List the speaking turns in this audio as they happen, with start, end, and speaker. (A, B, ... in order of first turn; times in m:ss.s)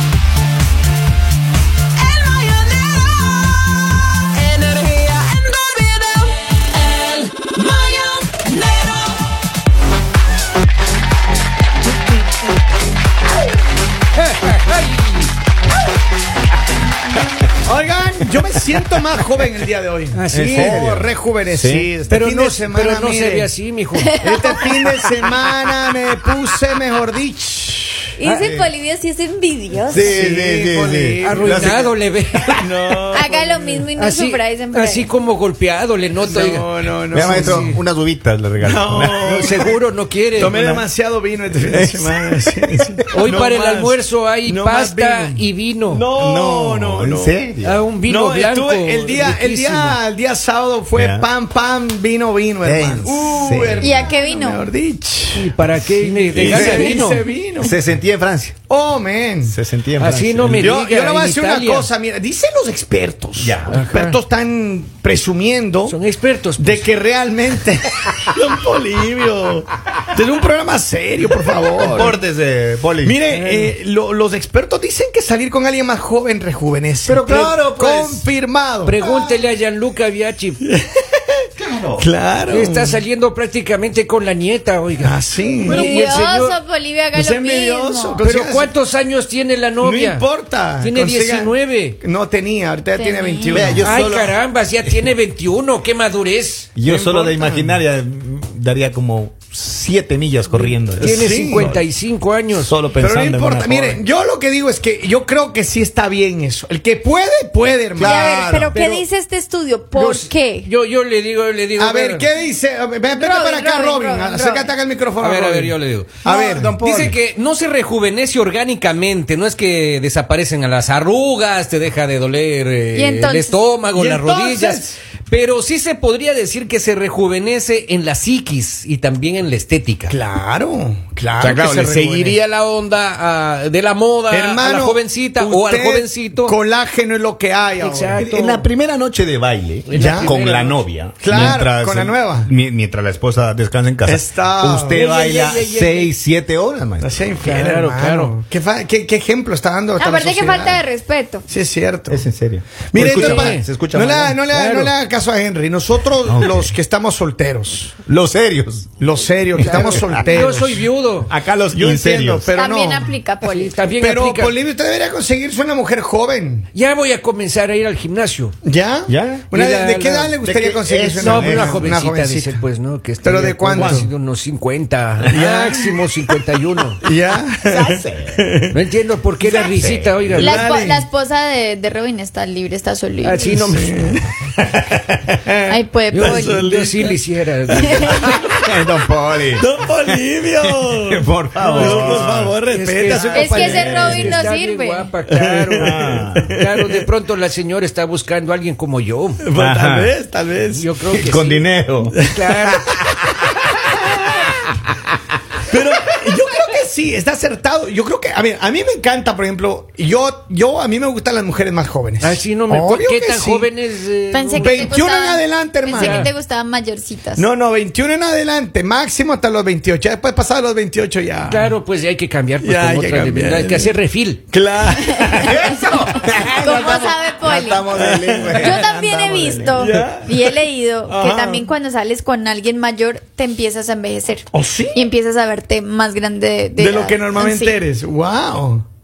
0:02.0-0:03.1 A
0:04.4-0:09.0 A
0:14.2-0:15.3 A
0:17.6-0:23.5 B
0:20.1-0:20.8 A
0:20.3-0:21.9 C
0:22.1-0:24.2 A
0:24.0-0:24.9 D
0:24.2-0:28.1 B
0:28.2-0:30.2 D
0:28.4-0:28.7 C
0:29.9-0:31.8 C
0:30.0-0:31.9 B
0:31.2-0:33.0 A
0:32.6-0:33.9 B
0:33.1-0:35.1 D
0:34.0-0:37.8 A
0:36.2-0:37.8 B
0:37.1-0:39.6 C
0:38.6-0:39.7 B
0:39.2-0:40.6 A
0:40.4-0:47.4 B
0:40.4-0:40.9 C
0:41.5-0:43.2 C
0:43.1-0:46.0 A
0:46.0-0:47.8 C
0:47.6-0:50.0 A
0:48.0-0:55.5 B
0:50.9-0:51.3 C
0:52.6-0:54.0 C
0:53.8-0:54.7 D
0:55.3-0:57.3 A
0:56.3-0:57.8 B
0:56.3-0:58.5 C
0:58.7-0:59.6 B
0:59.4-1:00.7 C
1:00.0-1:01.9 A
1:00.6-1:06.0 B
1:03.4-1:03.8 C
1:03.7-1:04.2 A
1:05.8-1:06.9 A
1:06.6-1:12.2 B
1:11.8-1:13.2 C
1:13.0-1:19.1 B
1:13.3-1:13.7 A
1:17.0-1:18.1 C
1:17.3-1:18.2 A
1:18.8-1:20.6 A
1:19.0-1:19.3 D
1:20.6-1:21.2 B
1:21.6-1:22.0 C
1:22.0-1:23.0 B
1:22.5-1:26.6 A
1:25.0-1:26.0 B
1:25.6-1:28.2 D
1:27.1-1:28.7 B
1:28.2-1:32.0 A
1:29.8-1:34.0 B
1:32.9-1:33.8 D
1:33.5-1:34.4 C
1:33.8-1:36.7 A
1:36.8-1:41.8 C
1:36.8-1:37.8 B
1:40.5-1:42.7 A
1:41.0-1:41.8 B
1:42.5-1:44.0 C
1:43.0-1:48.8 B
1:48.0-1:49.0 C
1:48.0-1:50.7 D
1:49.9-1:52.3 A
1:51.8-1:57.2 B
1:53.2-1:54.7 D
1:55.2-2:10.2 A
2:02.9-2:03.6 D
2:03.9-2:05.0 B
2:10.1-2:12.4 B
2:11.4-2:16.6 A
2:14.3-2:18.7 B
2:17.8-2:18.3 A
2:18.2-2:27.1 C
2:19.8-2:20.8 A
2:19.9-2:20.4 B
2:21.2-2:22.5 B
2:24.0-2:25.0 B
2:24.9-2:26.1 A
2:27.0-2:30.8 B
2:27.4-2:28.3 A
2:30.0-2:31.4 D
2:31.5-2:32.2 B
2:32.1-2:34.4 C
2:32.9-2:37.9 B
2:33.0-2:33.7 A
2:34.5-2:34.9 A
2:36.2-2:36.7 C
2:38.0-2:38.9 C
2:39.0-2:40.8 B
2:39.6-2:40.3 C
2:39.6-2:41.3 A
2:41.3-2:42.5 C
2:41.7-2:43.1 B
2:42.5-2:43.7 D
2:43.4-2:44.5 A
2:44.0-2:46.7 B
2:46.7-2:48.5 A
2:48.6-2:52.6 B
2:49.1-2:49.5 C
2:49.5-2:50.4 A
2:50.4-2:51.9 C
2:51.2-2:57.0 A
2:53.2-2:54.1 B
2:53.7-2:54.1 C
2:55.3-2:56.2 B
2:57.0-2:58.7 B
2:57.6-2:58.4 C
2:58.7-3:00.6 A
2:59.6-3:00.3 C
3:00.3-3:01.0 B
3:00.4-3:03.4 D
3:03.2-3:04.2 A
3:03.4-3:07.2 B
3:05.7-3:06.7 D
3:06.1-3:08.4 A
3:07.7-3:08.4 D
3:07.8-3:08.7 B
3:08.6-3:12.5 C
3:09.6-3:14.4 B
3:11.6-3:19.4 A
3:13.1-3:14.4 C
3:13.3-3:15.1 D
3:15.3-3:17.0 B
3:15.8-3:16.5 C
3:19.4-3:20.8 B
3:19.5-3:20.1 C
3:20.7-3:21.7 A
3:21.1-3:22.2 C
3:22.1-3:23.1 B
3:22.2-3:23.0 A
3:24.2-3:24.4 B
3:25.7-3:33.7 B
3:32.2-3:34.9 A
3:34.3-3:37.4 D
3:34.5-3:36.3 B
3:35.9-3:36.3 A
3:37.3-3:41.7 B
3:41.4-3:44.4 A
3:42.6-3:43.9 B
3:44.5-3:45.9 B
3:45.0-3:47.9 D
3:45.4-3:49.9 C
3:46.6-3:47.1 B
3:47.8-3:48.9 B
3:48.5-3:57.8 D
3:49.8-3:51.7 B
3:54.5-3:55.0 B
3:56.8-3:58.8 B